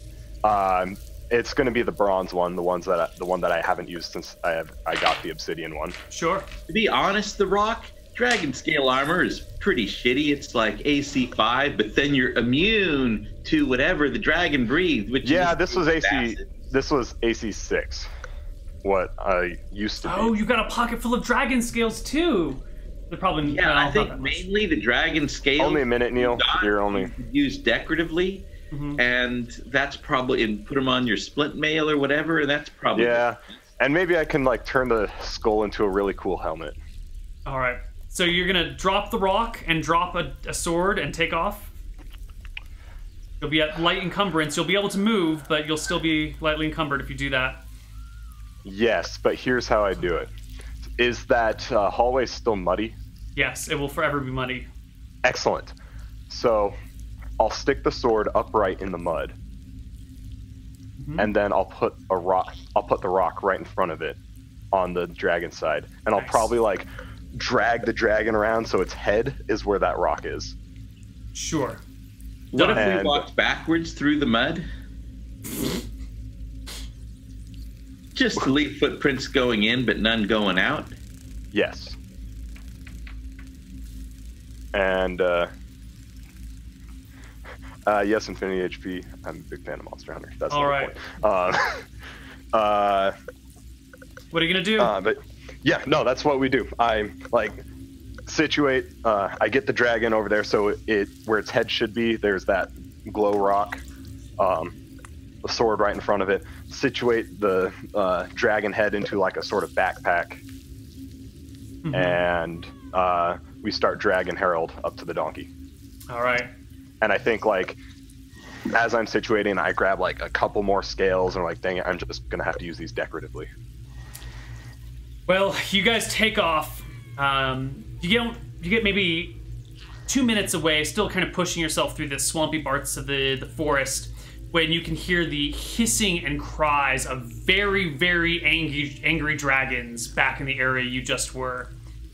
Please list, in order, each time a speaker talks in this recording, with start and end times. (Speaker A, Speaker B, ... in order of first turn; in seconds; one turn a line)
Speaker A: 0.4-6.0
Speaker B: 6.1-6.5
Speaker C: 6.7-16.5
Speaker A: 15.2-18.1
Speaker A: 18.8-20.4
Speaker B: 20.0-24.4
Speaker C: 23.4-33.3
Speaker A: 25.6-27.1
Speaker B: 28.7-29.0
Speaker A: 32.9-36.8
Speaker B: 37.5-41.7
Speaker B: 43.4-47.6
Speaker A: 48.6-50.3
Speaker A: 51.0-53.0
Speaker B: 53.4-54.7
Speaker A: 55.2-55.7
Speaker A: 56.3-56.8
Speaker A: 57.4-59.3
Speaker B: 61.0-61.3
Speaker A: 61.2-64.2
Speaker A: 64.7-70.5
Speaker B: 66.1-66.5
Speaker B: 71.3-71.8
Speaker C: 72.5-74.7
Speaker B: 72.5-72.9
Speaker A: 72.7-73.2
Speaker C: 78.1-80.9
Speaker A: 81.5-82.0
Speaker A: 84.7-85.5
Speaker A: 87.8-91.9
Speaker B: 90.5-90.9
Speaker A: 92.5-93.1
Speaker B: 94.3-94.9
Speaker A: 94.8-97.6
Speaker A: 98.3-103.8
Speaker A: 104.4-104.7
Speaker A: 105.4-110.4
Speaker B: 111.8-112.2
Speaker A: 111.9-115.5
Speaker B: 116.1-116.5
Speaker A: 117.0-117.8
Speaker A: 118.7-123.5
Speaker B: 125.3-129.4
Speaker B: 130.1-141.7